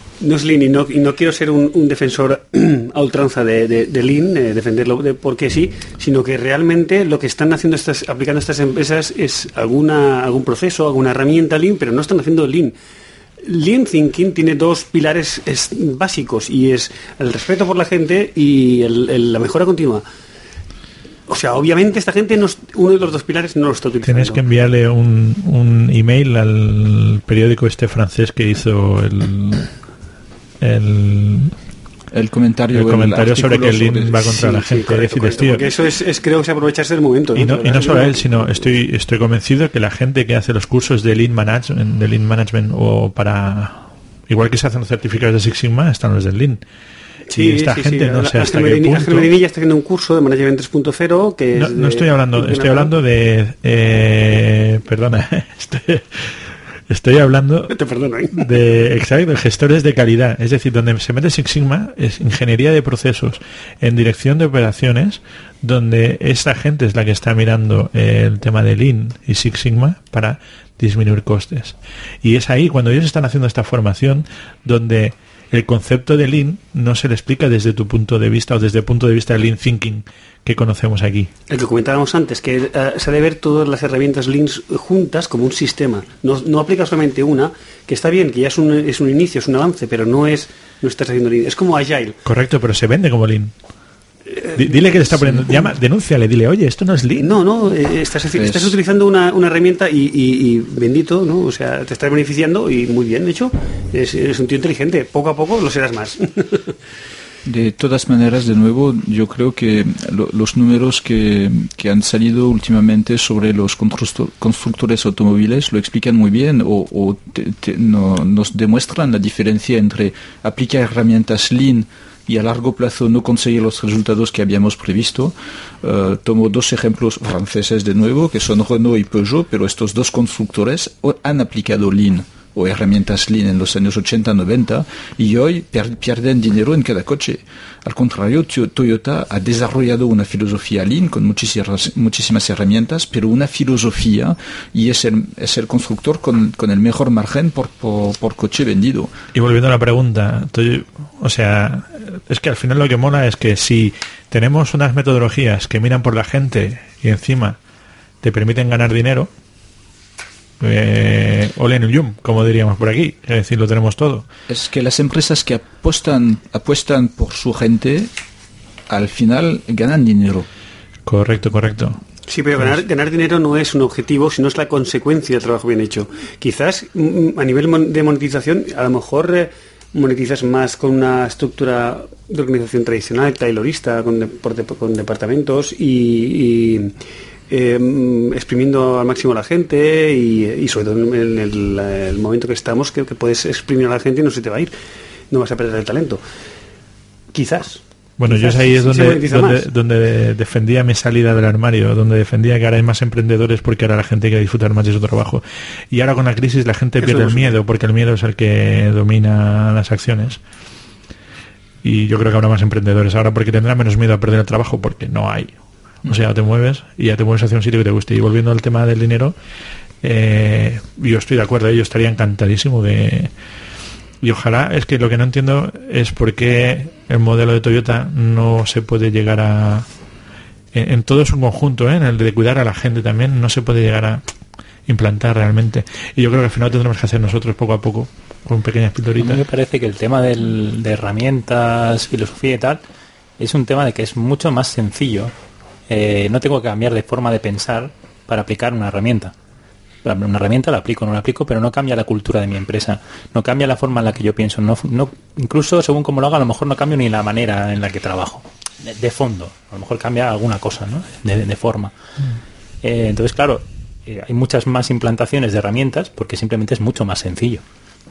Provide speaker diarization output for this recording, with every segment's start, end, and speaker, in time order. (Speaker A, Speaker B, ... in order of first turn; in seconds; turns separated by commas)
Speaker A: 0.2-12.7, Speaker A: 13.4-20.0, Speaker A: 21.3-24.4, Speaker B: 24.0-29.7, Speaker B: 30.6-31.6, Speaker C: 32.1-34.6, Speaker B: 32.7-35.6, Speaker A: 34.4-38.7, Speaker B: 37.4-46.6, Speaker B: 47.3-49.3, Speaker A: 47.3-52.9, Speaker B: 51.5-57.7, Speaker A: 57.7-58.5, Speaker B: 58.4-81.3, Speaker A: 81.5-92.2, Speaker B: 92.2-93.5, Speaker A: 94.3-95.6, Speaker B: 94.5-97.3, Speaker A: 97.2-106.7, Speaker C: 98.3-98.8, Speaker C: 107.4-149.1, Speaker B: 149.3-157.6, Speaker B: 158.2-159.3, Speaker B: 160.6-164.2, Speaker C: 164.5-168.1, Speaker C: 168.9-170.5, Speaker B: 171.1-172.0, Speaker A: 172.3-186.9, Speaker A: 187.5-194.7, Speaker A: 195.3-196.2, Speaker A: 197.3-199.7, Speaker B: 198.2-210.4, Speaker A: 207.0-207.6, Speaker B: 211.8-219.3, Speaker B: 220.0-223.3, Speaker B: 224.2-229.9, Speaker B: 230.7-234.2, Speaker B: 234.9-239.4, Speaker D: 239.2-242.8, Speaker D: 243.4-245.3, Speaker D: 245.9-249.3, Speaker D: 250.0-261.9, Speaker D: 262.8-267.6